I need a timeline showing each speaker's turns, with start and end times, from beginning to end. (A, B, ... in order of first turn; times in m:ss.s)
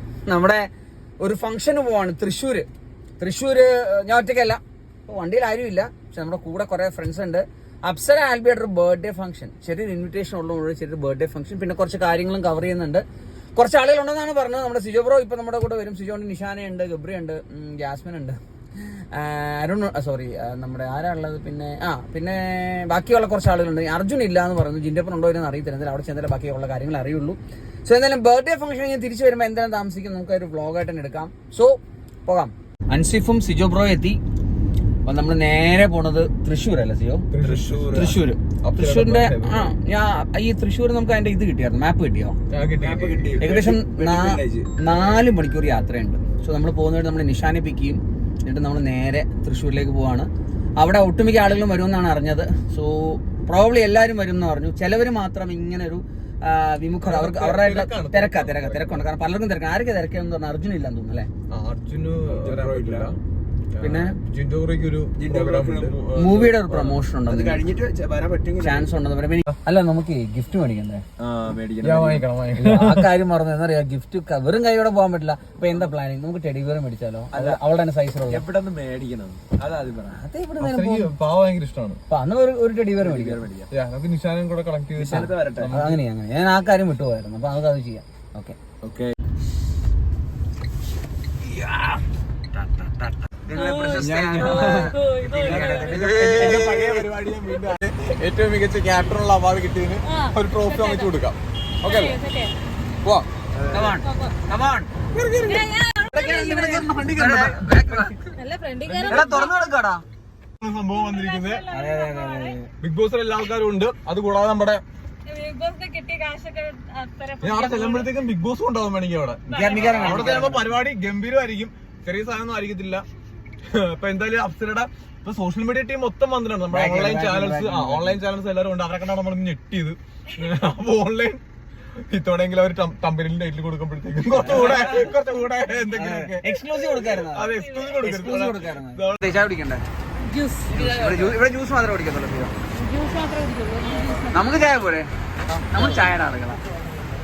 0:00.3-0:00.7 A
0:01.2-0:02.7 A
0:03.2-0:13.0 A
0:13.6-0:18.4 A
0:19.0-0:34.2 A
0:35.1-0:37.3 A
0:37.3-0:39.7 B
0:37.4-0:38.2 C
0:37.9-0:42.4 A
0:42.5-0:43.4 B
0:42.8-0:44.7 C
0:43.4-0:50.3 A
0:50.8-1:01.3 A
0:57.0-0:59.0 B
1:01.5-1:03.2 B
1:02.3-1:03.2 C
1:03.7-1:06.8 B
1:03.8-1:04.2 A
1:05.2-1:06.1 C
1:06.2-1:07.7 A
1:07.3-1:08.9 C
1:08.6-1:11.0 A
1:11.2-1:12.3 C
1:11.8-1:13.1 B
1:12.6-1:18.4 A
1:17.3-1:17.6 C
1:18.3-1:20.2 C
1:20.1-1:21.1 A
1:20.6-1:22.0 B
1:22.1-1:23.4 A
1:23.0-1:23.7 C
1:23.7-1:26.0 B
1:25.0-1:25.8 C
1:25.7-1:28.6 A
1:28.8-1:29.2 C
1:32.6-1:37.0 A
1:33.6-1:34.0 D
1:33.9-1:42.2 B
1:34.9-1:35.9 D
1:35.6-1:36.6 C
1:40.1-1:41.1 D
1:41.8-1:42.5 D
1:43.0-1:44.9 A
1:43.6-1:43.9 C
1:44.0-1:44.3 D
1:45.1-1:48.1 B
1:45.5-1:47.1 D
1:46.4-1:48.2 A
1:48.4-1:49.5 D
1:48.9-1:49.5 B
1:49.1-1:50.0 A
1:50.6-1:51.7 B
1:50.9-1:52.6 D
1:51.7-1:52.7 A
1:52.8-1:54.8 B
1:55.3-1:58.1 D
1:57.4-2:03.0 B
1:59.5-2:00.7 A
1:59.8-2:00.4 D
2:03.7-2:11.4 B
2:06.7-2:08.2 A
2:12.1-2:16.5 B
2:14.3-2:15.0 A
2:16.0-2:19.8 A
2:17.3-2:19.2 B
2:20.2-2:20.8 D
2:20.7-2:22.6 A
2:20.8-2:21.2 C
2:22.8-2:24.6 D
2:24.3-2:25.1 A
2:25.7-2:26.6 A